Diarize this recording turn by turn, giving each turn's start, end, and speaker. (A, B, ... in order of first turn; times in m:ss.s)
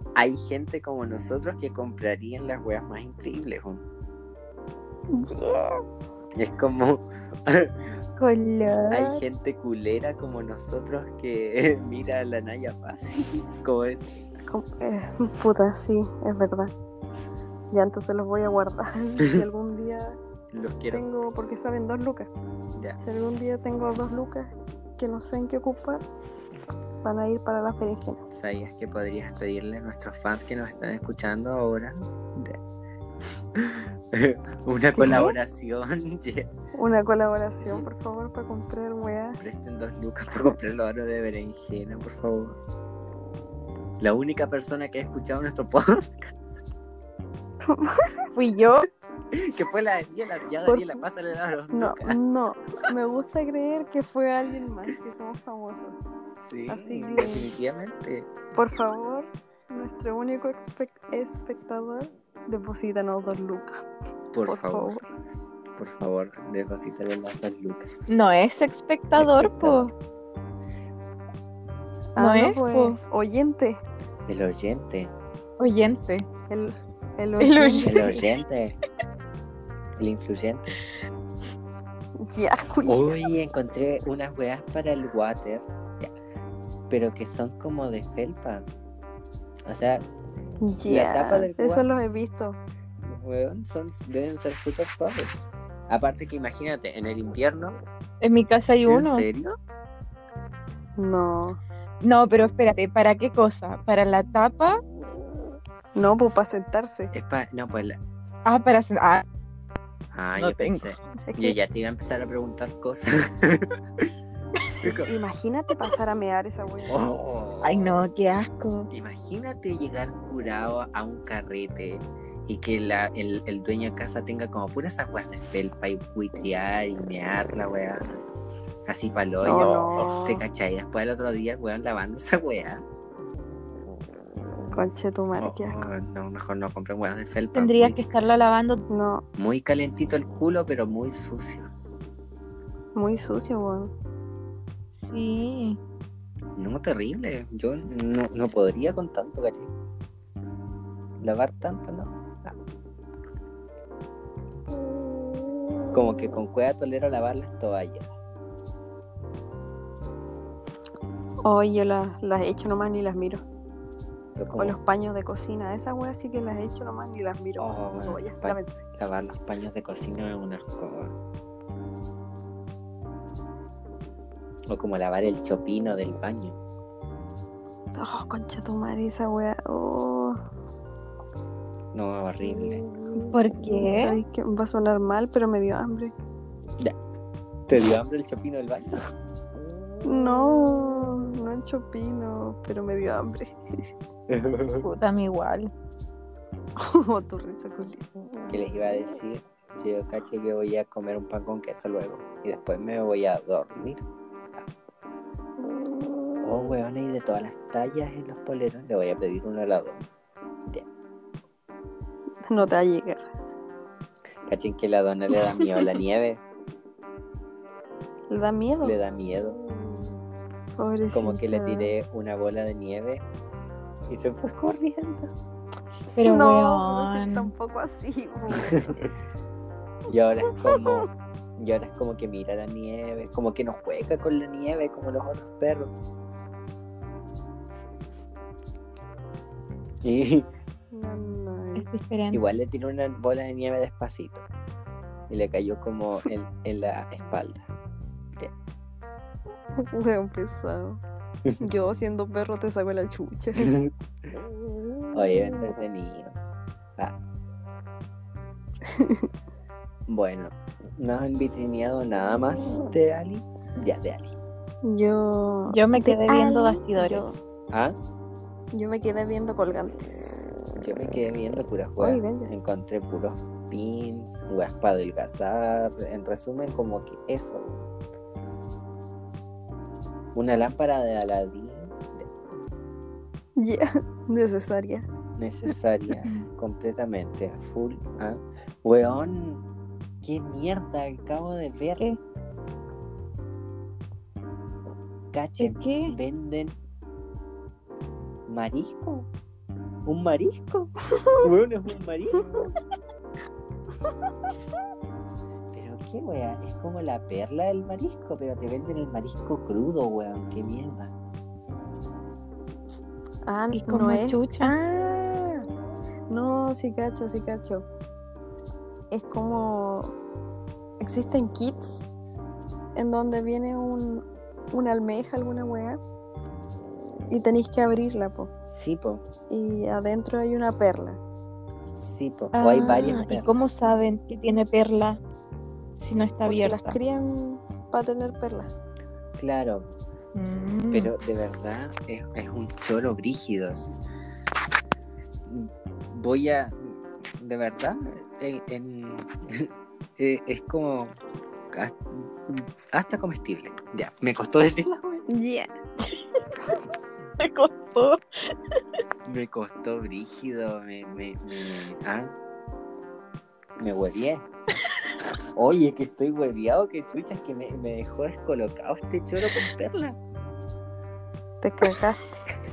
0:00.2-0:03.8 A
0:05.1-0:05.8 B
0:06.3-0:07.9 A
0:08.2-0:09.2 C
0:08.9-0:14.1 A
0:14.5-0:16.7 B
0:17.7-0:20.2 B
0:20.5-0:21.0 A
0:20.9-0:22.3 B
0:22.7-0:23.0 A
0:23.0-0:26.0 B
0:27.0-0:28.2 B
0:28.3-0:32.6 A
0:33.5-0:36.5 A
0:35.0-0:35.3 B
0:36.8-0:39.4 B
0:37.6-0:37.9 A
0:39.4-0:42.6 A
0:44.0-0:46.5 A
0:47.6-0:48.3 B
0:48.3-0:48.9 C
0:49.3-0:52.2 A
0:50.6-0:51.0 B
0:51.7-0:56.0 B
0:56.4-0:58.4 A
0:56.7-0:57.5 B
0:58.5-1:03.8 B
1:04.3-1:05.0 A
1:04.4-1:05.0 B
1:05.8-1:07.9 A
1:08.1-1:09.9 C
1:09.2-1:09.9 A
1:12.2-1:13.8 B
1:12.2-1:13.0 C
1:14.3-1:15.1 A
1:15.6-1:16.2 C
1:16.5-1:18.2 B
1:17.4-1:18.2 C
1:17.8-1:18.8 A
1:20.0-1:20.7 A
1:22.2-1:23.2 B
1:22.8-1:26.1 A
1:26.9-1:28.6 A
1:29.6-1:30.0 A
1:30.6-1:32.6 B
1:30.9-1:31.8 A
1:33.0-1:35.3 A
1:35.9-1:37.7 A
1:38.2-1:39.3 C
1:38.8-1:39.6 A
1:41.0-1:41.6 B
1:42.0-1:44.8 C
1:45.9-1:47.1 B
1:47.1-1:48.0 A
1:48.4-1:49.2 C
1:50.1-1:54.1 A
1:50.4-1:50.9 C
1:51.3-1:51.6 B
1:54.8-1:55.1 A
1:54.8-1:57.1 B
1:56.9-1:58.0 A
1:57.6-1:58.9 C
1:58.9-2:08.0 A
2:08.8-2:12.8 A
2:09.4-2:10.4 B
2:14.7-2:15.8 B
2:15.4-2:18.0 A
2:17.5-2:18.8 C
2:18.9-2:19.2 B
2:19.4-2:21.7 A
2:22.9-2:23.9 B
2:24.9-2:25.8 C
2:26.6-2:29.7 A
2:31.2-2:32.6 A
2:35.9-2:38.2 A
2:41.4-2:43.4 B
2:44.4-2:44.8 A
2:44.6-2:48.8 B
2:47.6-2:51.2 A
2:54.7-2:56.6 A
2:57.9-3:00.4 B
3:01.9-3:02.8 A
3:03.3-3:04.2 C
3:03.8-3:06.1 B
3:07.7-3:09.0 A
3:10.0-3:13.6 B
3:14.3-3:14.9 A
3:14.8-3:15.7 C
3:16.8-3:18.0 B
3:18.5-3:24.7 A
3:26.4-3:30.1 A
3:32.4-3:33.3 B
3:34.4-3:36.4 A
3:38.3-3:39.0 B
3:38.8-3:39.6 A
3:39.6-3:40.1 B
3:40.8-3:41.9 B
3:41.1-3:43.2 A
3:44.1-3:45.3 A
3:46.2-3:47.5 C
3:46.2-3:49.0 B
3:48.5-3:49.0 A
3:50.1-3:55.9 A
3:50.5-3:51.1 B
4:00.0-4:00.5 A
4:00.9-4:01.9 B
4:01.7-4:02.4 C
4:02.3-4:04.4 A
4:05.3-4:07.7 A
4:09.7-4:11.0 B
4:11.6-4:13.7 B
4:13.6-4:13.9 A
4:15.1-4:16.4 A
4:18.8-4:19.3 B
4:20.1-4:24.3 A
4:24.8-4:27.4 B
4:25.7-4:27.4 C
4:28.7-4:30.4 B
4:30.8-4:37.9 A
4:32.0-4:32.5 B
4:40.3-4:42.3 A
4:43.6-4:45.1 B
4:45.4-4:49.6 A
4:50.2-4:52.0 A
4:55.3-4:56.8 A
4:55.6-4:56.1 C
4:58.5-4:59.3 A
5:00.0-5:02.7 A
5:05.7-5:11.1 A
5:13.4-5:15.6 B
5:13.7-5:14.7 C
5:16.3-5:17.8 B
5:19.1-5:20.1 B
5:21.0-5:22.1 B
5:22.9-5:26.0 B
5:27.3-5:28.5 B
5:28.7-5:29.2 A
5:29.5-5:31.2 B
5:32.0-5:33.5 A
5:32.5-5:35.2 C
5:36.0-5:37.0 C
5:36.4-5:38.7 B
5:39.4-5:39.9 A
5:40.3-5:41.1 C
5:40.9-5:43.9 A
5:45.5-5:51.2 A
5:51.7-5:55.2 A
5:55.3-5:55.7 B
5:57.4-5:58.2 C
5:59.2-6:02.3 A
6:03.8-6:04.4 A
6:05.5-6:10.2 A
6:11.6-6:12.2 B